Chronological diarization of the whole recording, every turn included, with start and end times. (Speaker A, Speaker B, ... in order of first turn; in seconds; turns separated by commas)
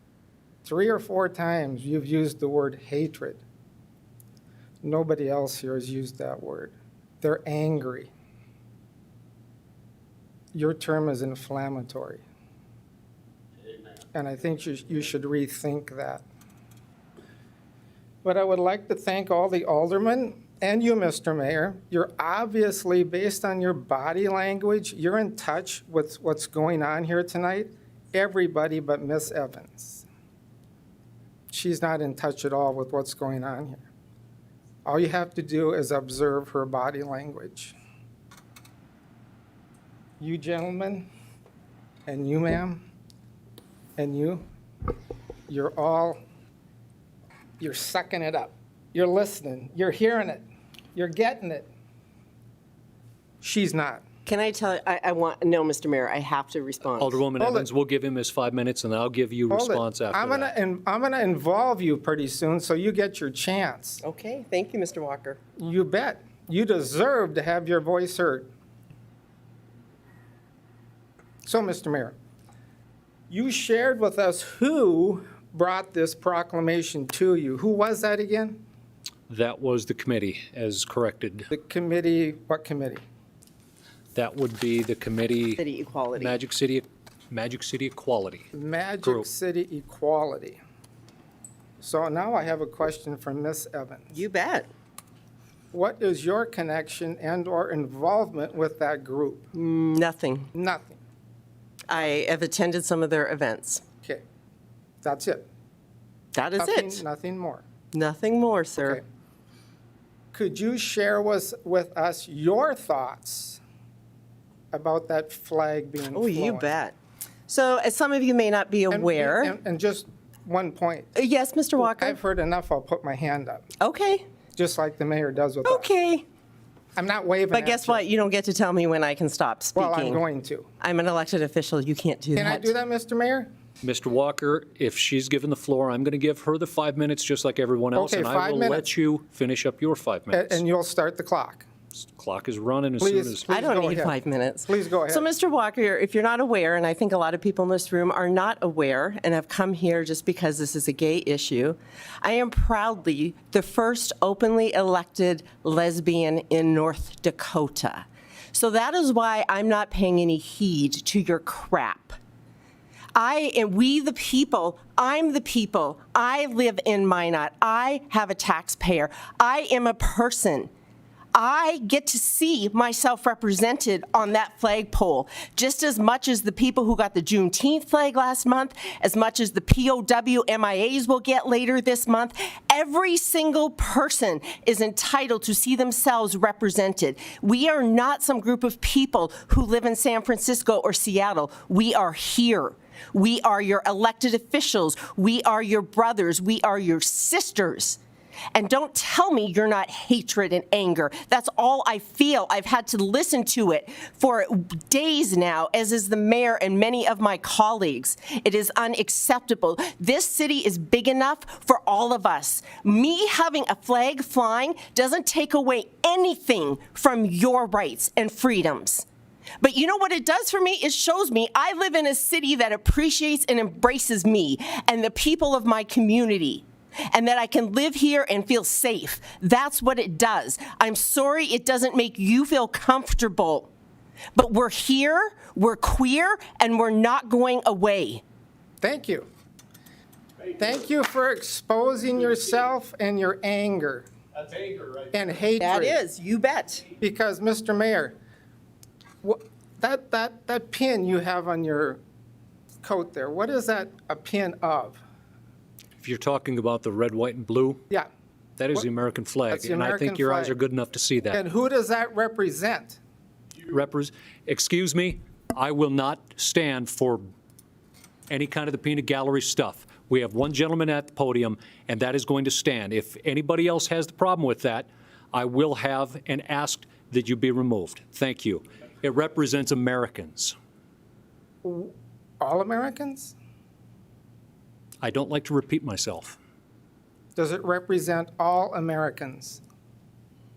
Speaker A: 0.6-3.4, Speaker A: 4.8-8.1, Speaker A: 10.5-12.2, Speaker A: 14.1-16.2, Speaker A: 18.2-30.1, Speaker A: 31.5-33.9, Speaker A: 34.9-37.8, Speaker A: 40.2-41.1, Speaker A: 42.1-42.8, Speaker A: 44.0-44.4, Speaker A: 45.5-46.2, Speaker A: 47.6-51.7, Speaker A: 53.4-54.0, Speaker B: 54.3-57.2, Speaker C: 57.0-60.5, Speaker A: 57.4-57.7, Speaker A: 59.5-64.0, Speaker B: 64.0-65.4, Speaker A: 65.6-68.5, Speaker A: 71.5-72.2, Speaker A: 73.3-78.6, Speaker C: 79.3-81.5, Speaker A: 81.5-83.0, Speaker C: 84.2-85.6, Speaker B: 85.6-86.4, Speaker C: 86.2-88.5, Speaker A: 88.5-90.6, Speaker A: 91.8-94.1, Speaker B: 94.1-94.7, Speaker A: 95.7-99.5, Speaker B: 99.5-100.5, Speaker A: 100.5-101.0, Speaker B: 101.9-103.8, Speaker A: 105.0-105.5, Speaker B: 106.3-107.0, Speaker A: 106.6-107.7, Speaker B: 107.9-109.0, Speaker A: 110.3-113.6, Speaker A: 114.7-116.7, Speaker B: 116.1-117.0, Speaker B: 117.5-119.6, Speaker A: 118.9-121.2, Speaker B: 121.2-122.2, Speaker A: 121.8-123.7, Speaker B: 123.8-124.2, Speaker A: 124.6-125.9, Speaker B: 125.6-126.2, Speaker A: 127.0-128.1, Speaker B: 127.5-130.2, Speaker A: 129.8-130.7, Speaker B: 130.8-132.7, Speaker A: 132.3-133.5, Speaker C: 133.8-140.6, Speaker A: 137.9-138.9, Speaker A: 140.3-141.7, Speaker C: 142.2-143.4, Speaker A: 143.0-145.3, Speaker B: 143.5-162.2, Speaker B: 163.2-170.7, Speaker B: 171.3-198.0, Speaker B: 198.6-219.1, Speaker B: 219.6-233.7, Speaker B: 234.3-238.2, Speaker A: 238.8-239.3, Speaker A: 240.5-244.1, Speaker A: 244.9-246.0, Speaker B: 245.6-246.9, Speaker A: 247.0-248.2, Speaker A: 249.2-252.0, Speaker A: 252.8-255.0, Speaker C: 256.0-257.8, Speaker C: 258.6-261.4, Speaker A: 259.5-260.6, Speaker A: 261.3-263.0, Speaker C: 263.7-267.2, Speaker C: 268.3-280.6, Speaker A: 281.6-283.4, Speaker C: 285.0-286.4, Speaker A: 287.4-289.6